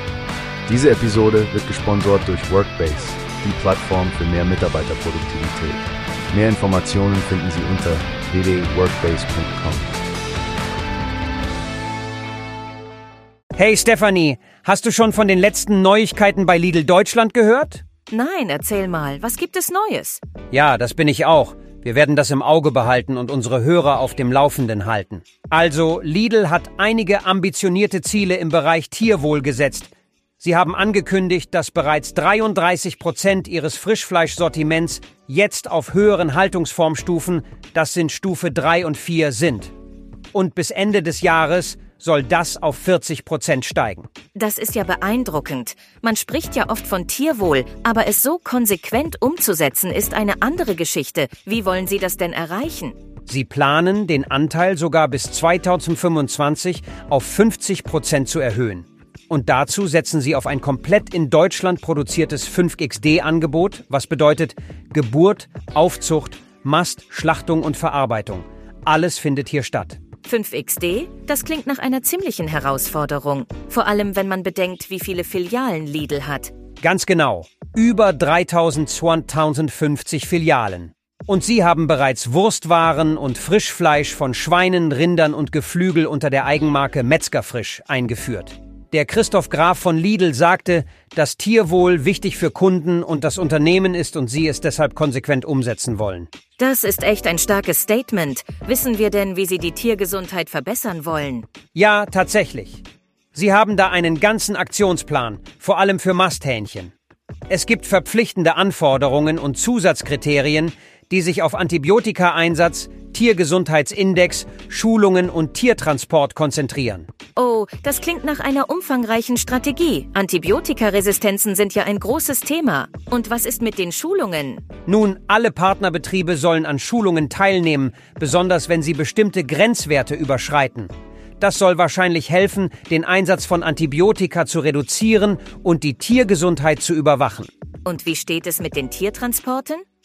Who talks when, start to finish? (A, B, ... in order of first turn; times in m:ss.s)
0:00.7-0:10.0 A
0:13.6-0:17.8 B
0:18.1-0:20.2 C
0:20.5-0:39.7 B
0:40.3-0:44.1 B
0:44.3-0:53.0 C
0:53.3-1:10.0 B
1:10.2-1:16.5 C
1:16.8-1:36.3 B
1:36.6-1:41.5 C
1:41.8-1:42.8 B
1:43.3-1:46.9 B
1:47.5-1:57.1 B
1:57.4-2:04.6 C
2:04.9-2:17.5 B
2:17.8-2:19.8 C